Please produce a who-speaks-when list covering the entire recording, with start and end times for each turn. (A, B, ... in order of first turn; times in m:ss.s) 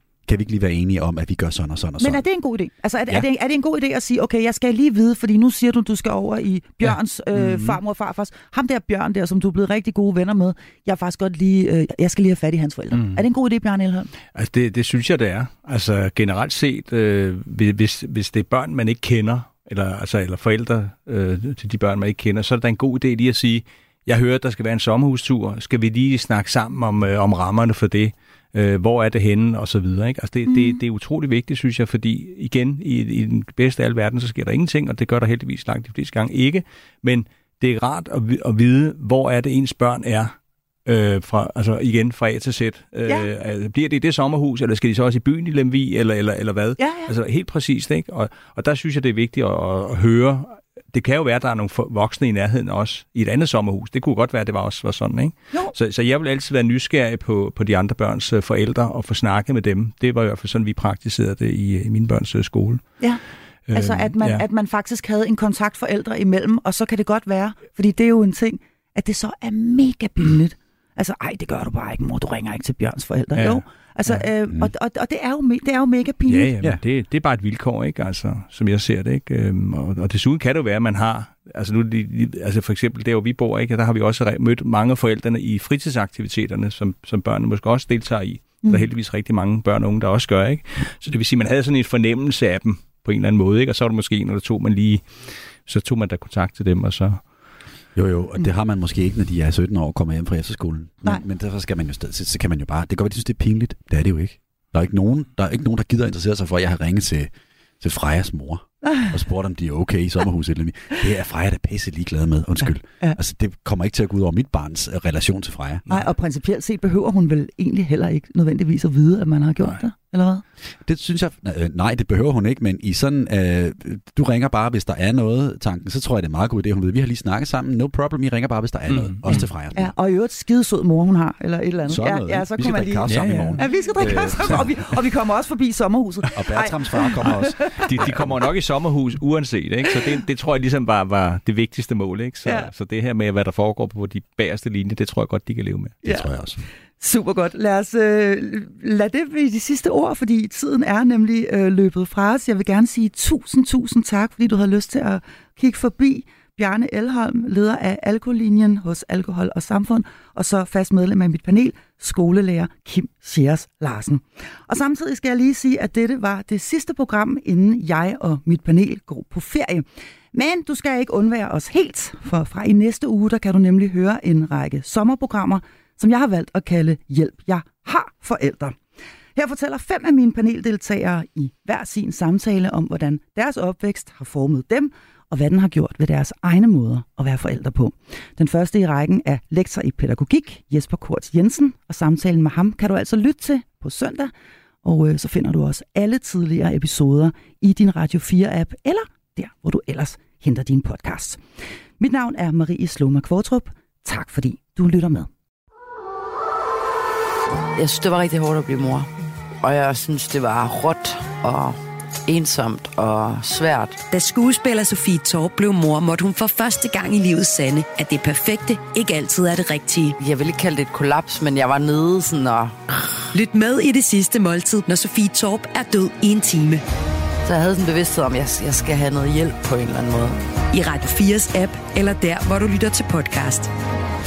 0:00.3-0:02.2 A
0:02.0-0:14.1 B
0:07.4-0:07.8 C
0:12.9-0:13.2 C
0:14.3-0:40.3 C
0:30.5-0:30.8 B
0:40.8-1:02.8 C
0:46.8-0:47.1 B
1:03.7-1:04.4 C
1:03.7-1:16.5 B
1:13.3-1:14.2 C
1:16.3-1:37.2 C
1:38.0-1:55.9 A
1:48.8-1:49.1 B
1:55.9-2:00.4 B
2:00.8-2:09.9 A
2:08.9-2:09.4 C
2:09.7-2:18.1 B
2:11.9-2:14.6 A
2:13.1-2:14.7 C
2:16.3-2:18.4 A
2:17.7-2:26.0 C
2:26.0-2:26.6 A
2:27.0-2:58.8 B
2:59.4-3:14.3 B
3:14.8-3:21.4 B
3:22.0-3:25.3 B
3:27.8-3:29.1 D
3:29.6-3:34.0 D
3:34.1-3:40.2 E
3:40.2-3:42.8 D
3:43.3-3:46.8 E
3:47.4-3:50.4 D
3:50.7-3:53.7 E